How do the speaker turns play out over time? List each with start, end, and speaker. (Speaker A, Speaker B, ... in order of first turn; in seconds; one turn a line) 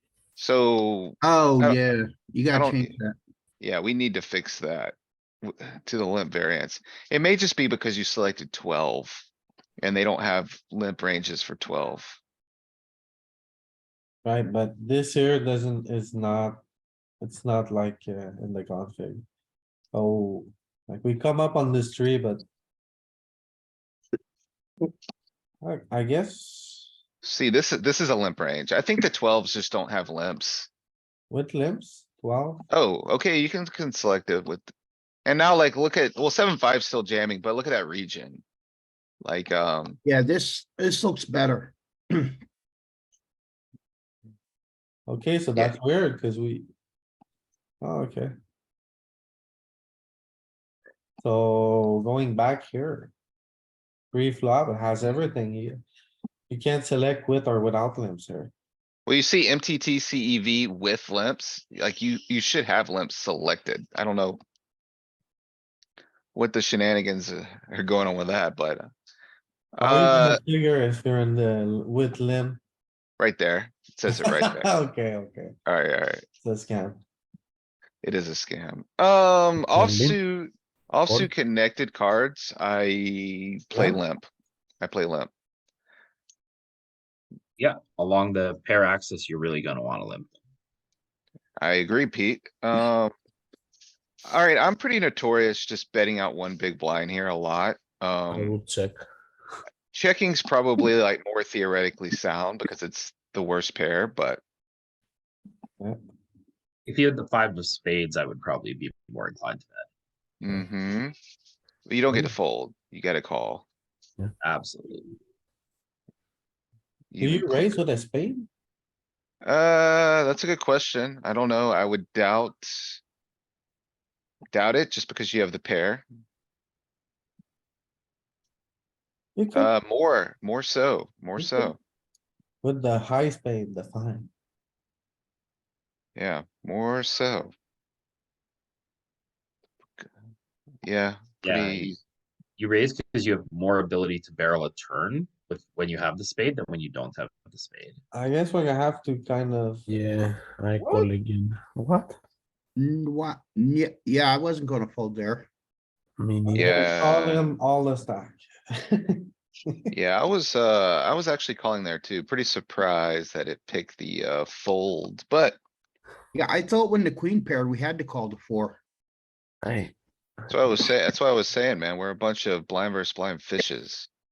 Speaker A: 0.4-1.8
Speaker B: 1.2-3.1
Speaker A: 2.5-3.0
Speaker A: 3.6-9.2
Speaker A: 9.8-12.2
Speaker C: 14.2-16.6
Speaker C: 17.2-19.2
Speaker C: 19.9-22.4
Speaker C: 25.6-26.9
Speaker A: 27.2-30.7
Speaker C: 31.3-32.7
Speaker A: 32.7-34.7
Speaker A: 35.2-38.4
Speaker A: 39.2-40.0
Speaker B: 40.0-42.4
Speaker C: 45.1-46.7
Speaker C: 47.8-48.3
Speaker C: 51.2-53.1
Speaker C: 54.1-55.8
Speaker C: 56.5-58.5
Speaker A: 59.1-64.4
Speaker A: 66.3-68.9
Speaker A: 69.7-70.4
Speaker C: 69.8-72.6
Speaker A: 73.2-74.7
Speaker C: 74.1-75.5
Speaker A: 75.7-76.2
Speaker C: 76.4-77.0
Speaker A: 78.0-84.3
Speaker D: 79.6-80.2
Speaker C: 83.7-84.0
Speaker A: 84.8-85.3
Speaker E: 87.6-90.3
Speaker A: 91.6-93.1
Speaker A: 94.3-98.5
Speaker D: 98.3-99.0
Speaker A: 99.9-104.4
Speaker E: 106.8-109.9
Speaker A: 110.4-111.1
Speaker A: 111.8-113.7
Speaker E: 114.4-115.2
Speaker A: 117.1-117.8
Speaker C: 117.2-118.5
Speaker A: 119.4-123.0
Speaker A: 124.5-126.0
Speaker C: 129.3-129.7
Speaker A: 129.5-131.8
Speaker C: 131.4-131.7
Speaker C: 132.6-134.3
Speaker A: 136.2-137.5
Speaker A: 140.8-141.9
Speaker E: 141.4-142.0
Speaker E: 142.6-148.0
Speaker C: 148.1-149.9
Speaker D: 149.9-152.2
Speaker C: 150.8-151.1
Speaker B: 152.8-155.5
Speaker D: 156.2-156.8
Speaker C: 156.5-159.2
Speaker A: 156.5-157.5
Speaker A: 159.9-165.6
Speaker B: 166.3-168.8
Speaker D: 169.6-170.7
Speaker A: 170.5-174.1